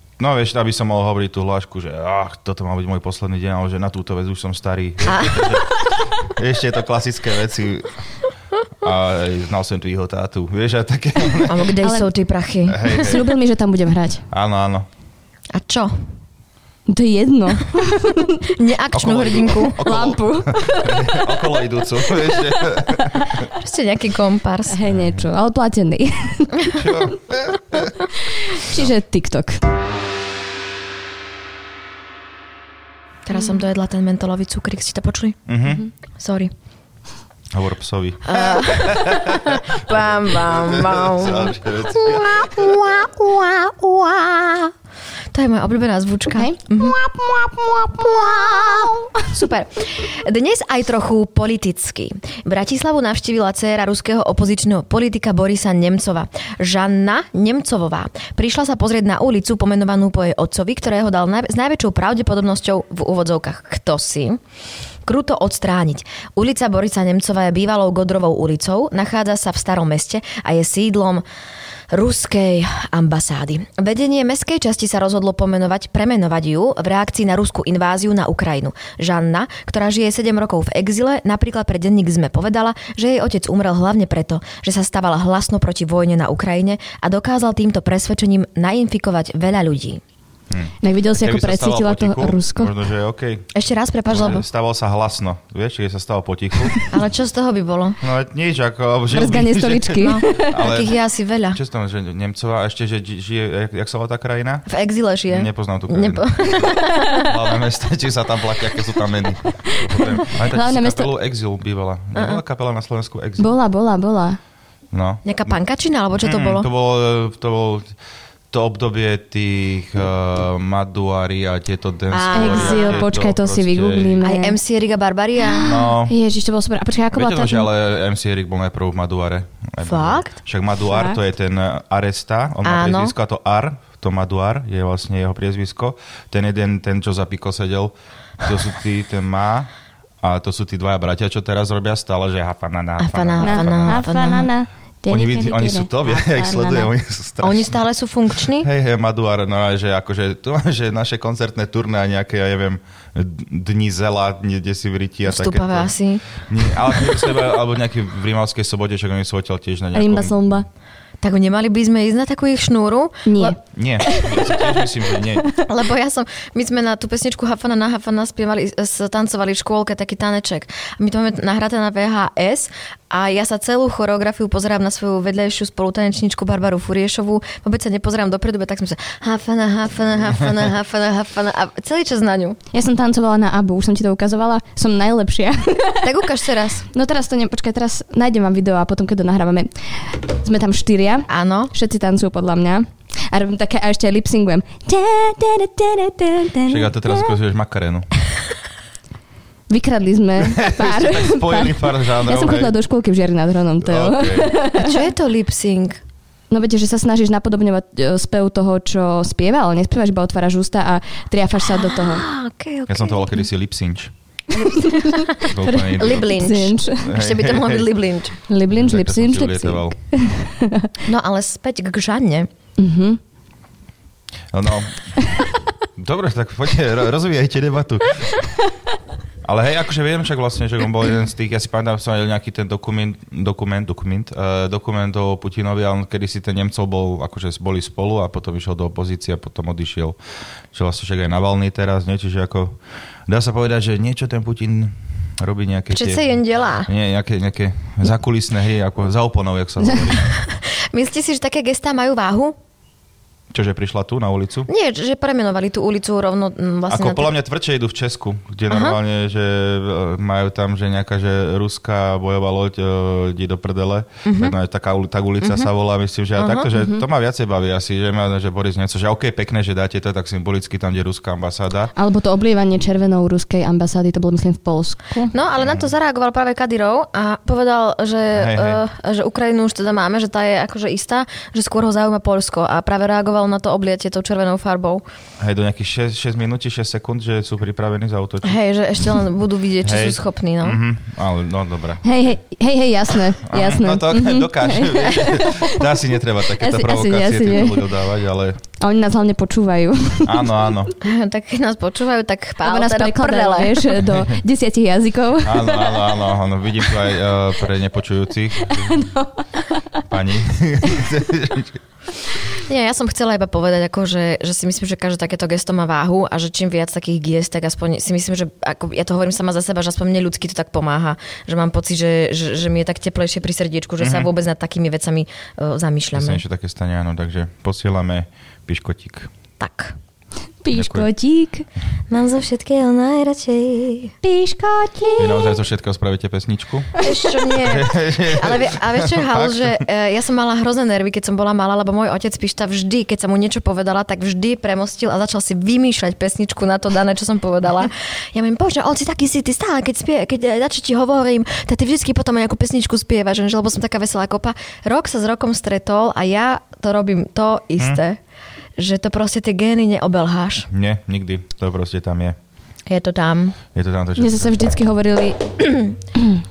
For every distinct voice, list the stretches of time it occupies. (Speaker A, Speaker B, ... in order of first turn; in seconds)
Speaker A: 0.2-7.9, 8.8-11.7, 12.7-13.3, 14.3-14.9, 18.9-23.5, 24.9-25.3, 26.8-27.9, 35.5-35.9, 37.5-42.8, 90.5-93.5, 94.1-96.9, 98.0-101.0, 101.5-104.7, 105.3-113.5, 114.9-115.5, 116.2-117.9, 118.5-124.2, 125.6-126.1, 127.1-139.7, 140.2-144.1, 145.1-147.8, 148.6-155.9, 156.4-160.6, 163.7-165.5, 196.7-198.1, 200.4-202.8, 203.8-204.6, 212.9-214.1, 215.4-216.3, 217.0-217.9, 218.7-220.0, 224.5-225.4, 226.0-228.3, 229.4-240.2, 240.7-250.3, 253.5-254.7, 256.9-271.9, 275.6-275.9, 278.3-278.8, 285.4-288.6, 289.8-292.0, 293.4-298.6, 300.2-300.9, 304.0-304.4, 305.4-309.0, 310.1-311.8, 324.0-324.3, 326.1-329.3, 330.7-331.1, 335.2-337.0, 337.6-339.8, 360.7-362.4, 363.7-364.5
Speaker B: 5.0-5.6, 11.4-13.2, 15.5-16.0, 18.6-19.8, 23.6-24.8, 33.3-35.4, 36.2-36.5, 38.3-44.7, 45.3-47.0, 47.9-64.4, 65.1-71.2, 71.9-90.0, 93.5-94.5, 96.8-98.0, 100.0-101.6, 104.7-107.3, 112.2-112.4, 115.2-116.7, 122.1-123.1, 124.2-125.9, 129.8-130.4, 132.7-133.1, 143.0-144.5, 147.4-148.7, 155.3-156.4, 161.2-163.6, 165.6-182.6, 186.0-186.9, 191.3-191.7, 204.8-206.0, 211.7-213.4, 214.6-218.4, 221.1-222.5, 245.9-246.9, 250.2-252.6, 254.7-257.3, 258.7-259.0, 264.2-264.6, 266.4-266.7, 275.3-285.0, 288.4-290.8, 301.0-304.0, 312.6-326.4, 329.6-330.0, 332.1-334.1, 337.0-358.2, 358.8-360.7, 362.9-363.6, 365.6-366.0
Speaker C: 11.8-12.1, 12.9-14.2, 16.9-18.5, 19.8-21.3, 22.3-23.4, 24.7-27.1, 28.2-29.6, 46.3-49.3, 90.8-92.7, 99.1-100.7, 106.9-107.2, 110.4-111.1, 113.4-114.4, 122.3-124.6, 125.4-127.7, 130.9-131.2, 143.4-146.9, 159.9-160.7, 163.3-164.6, 182.7-186.2, 186.9-197.3, 199.7-205.0, 206.5-212.3, 214.5-217.2, 218.5-220.9, 222.8-223.2, 266.8-267.0, 272.0-275.3, 292.0-295.9, 296.6-297.9, 298.8-300.7, 302.6-306.2, 308.7-310.0, 330.6-331.7, 334.2-335.6, 364.2-365.5